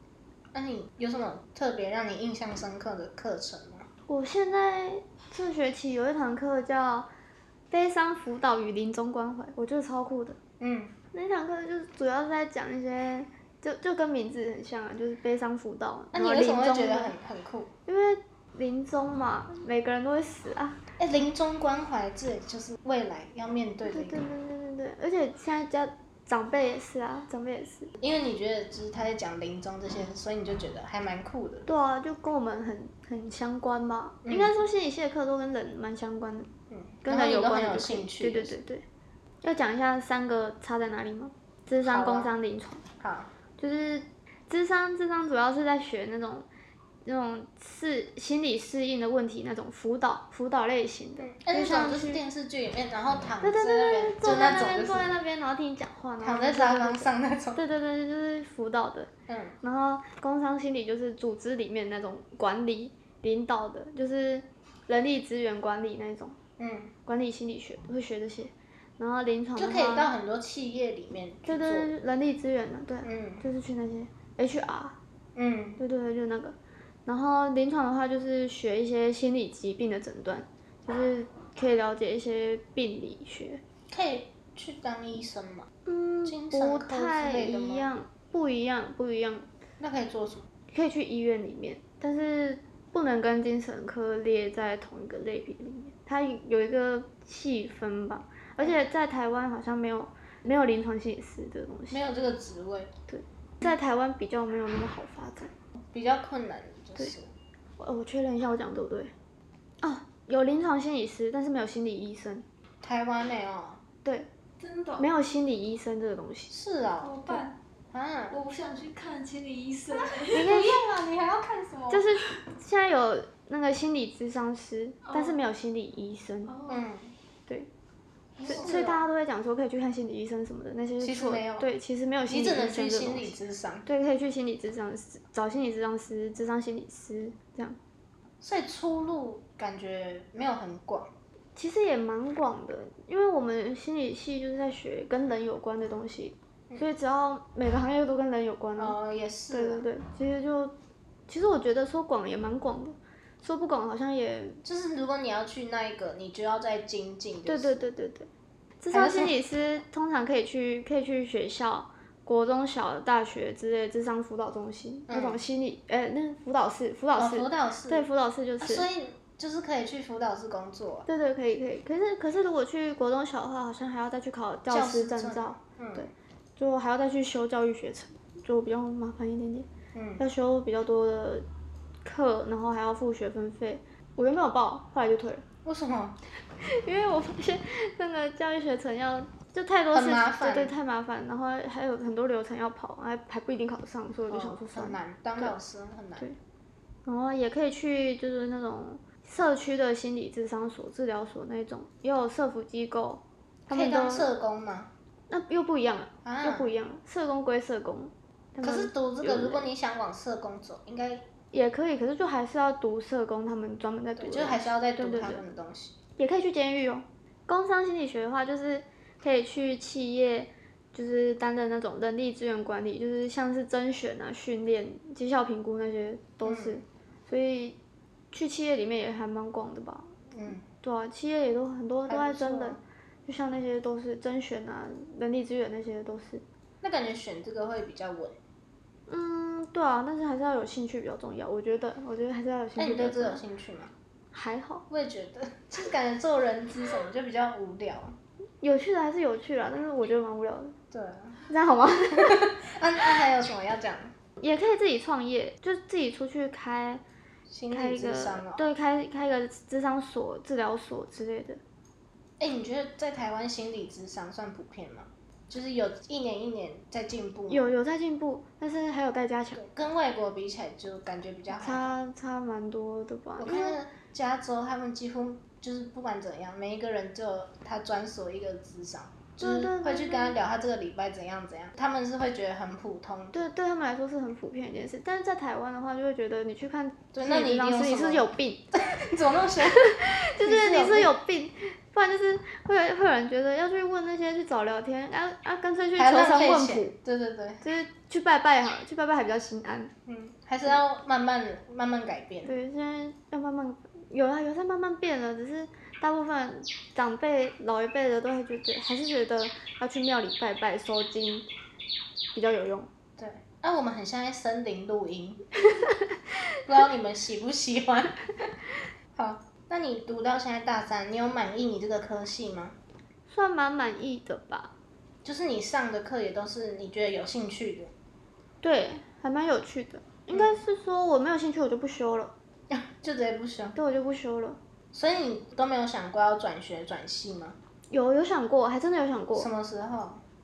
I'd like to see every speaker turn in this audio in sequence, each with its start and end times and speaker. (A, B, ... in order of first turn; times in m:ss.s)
0:00.5-0:03.9 A
0:04.1-0:07.1 B
0:07.7-0:10.4 B
0:10.6-0:11.0 A
0:11.1-0:17.1 B
0:16.1-0:17.7 A
0:17.8-0:20.8 B
0:21.0-0:24.2 A
0:23.8-0:27.9 B
0:28.0-0:31.7 A
0:31.7-0:36.5 B
0:34.2-0:34.5 A
0:36.7-0:38.5 A
0:37.0-0:38.8 B
0:39.4-0:42.8 B
0:41.8-0:42.3 A
0:43.0-0:43.3 A
0:43.6-0:46.5 B
0:47.0-0:52.2 B
0:51.2-0:55.1 A
0:53.4-0:59.1 B
0:56.2-0:57.6 A
0:59.3-0:59.6 A
0:59.6-1:06.4 B
1:06.6-1:06.9 A
1:07.0-1:10.1 B
1:09.6-1:11.9 A
1:11.4-1:15.0 B
1:13.0-1:13.4 A
1:15.3-1:15.8 A
1:15.8-1:23.6 B
1:23.9-1:25.7 A
1:25.8-1:29.5 B
1:26.2-1:27.9 A
1:29.8-1:30.5 A
1:30.7-1:42.1 B
1:41.9-1:42.9 A
1:43.1-1:45.5 B
1:45.8-1:47.3 A
1:47.8-1:49.1 B
1:49.8-1:52.4 B
1:52.8-1:53.8 A
1:54.6-1:55.1 C
1:55.0-1:56.5 B
1:56.5-1:57.2 A
1:57.0-1:57.6 C
1:57.9-1:58.4 A
1:58.3-2:00.8 C
2:00.3-2:02.0 A
2:00.3-2:00.8 B
2:01.9-2:06.6 B
2:05.0-2:05.4 C
2:06.4-2:06.8 C
2:06.7-2:07.1 A
2:08.4-2:08.8 C
2:08.4-2:09.0 A
2:08.4-2:13.3 B
2:11.0-2:11.7 A
2:12.3-2:13.9 A
2:13.8-2:17.8 B
2:18.4-2:21.1 A
2:21.6-2:29.0 B
2:28.8-2:29.8 A
2:29.5-2:30.7 B
2:31.3-2:34.6 B
2:34.6-2:37.8 A
2:37.4-2:38.3 B
2:38.8-2:48.9 B
2:38.9-2:39.3 A
2:45.1-2:45.4 A
2:47.2-2:48.0 A
2:48.6-2:51.1 A
2:51.0-2:59.7 B
2:54.7-2:56.1 A
2:59.9-3:00.2 A
3:00.2-3:01.4 B
3:02.0-3:05.4 B
3:05.6-3:06.2 A
3:06.6-3:15.5 B
3:09.9-3:10.8 A
3:14.3-3:16.2 A
3:17.0-3:24.3 B
3:23.7-3:24.9 A
3:25.3-3:29.7 B
3:26.2-3:26.7 A
3:28.6-3:31.3 A
3:31.5-3:35.4 B
3:34.2-3:35.9 A
3:36.2-3:47.8 B
3:46.4-3:46.8 A
3:48.3-3:50.1 B
3:50.3-3:50.6 A
3:50.8-3:56.4 B
3:52.1-3:52.8 A
3:56.8-3:58.4 A
3:59.1-4:03.4 B
4:02.8-4:03.9 A
4:04.3-4:04.8 B
4:04.9-4:08.2 A
4:08.6-4:10.8 B
4:10.9-4:11.4 A
4:11.5-4:12.5 B
4:12.1-4:14.1 A
4:14.4-4:17.0 B
4:17.5-4:18.6 A
4:17.7-4:21.6 B
4:22.4-4:27.7 A
4:27.5-4:29.6 B
4:29.5-4:31.9 A
4:31.5-4:33.8 B
4:33.4-4:43.4 A
4:39.4-4:40.4 B
4:43.3-4:48.6 B
4:47.1-4:51.1 A
4:49.7-4:56.9 B
4:56.0-4:57.6 A
4:57.6-4:59.9 B
5:00.1-5:02.5 A
5:02.4-5:11.5 B
5:12.3-5:12.9 B
5:13.2-5:15.4 A
5:15.7-5:16.0 B
5:16.6-5:18.2 A
5:19.2-5:22.8 A
5:23.3-5:24.7 B
5:25.2-5:27.9 A
5:28.6-5:32.3 B
5:30.3-5:30.6 A
5:32.7-5:33.8 A
5:33.8-5:34.6 B
5:34.9-5:37.6 A
5:37.9-5:39.5 B
5:39.3-5:40.2 A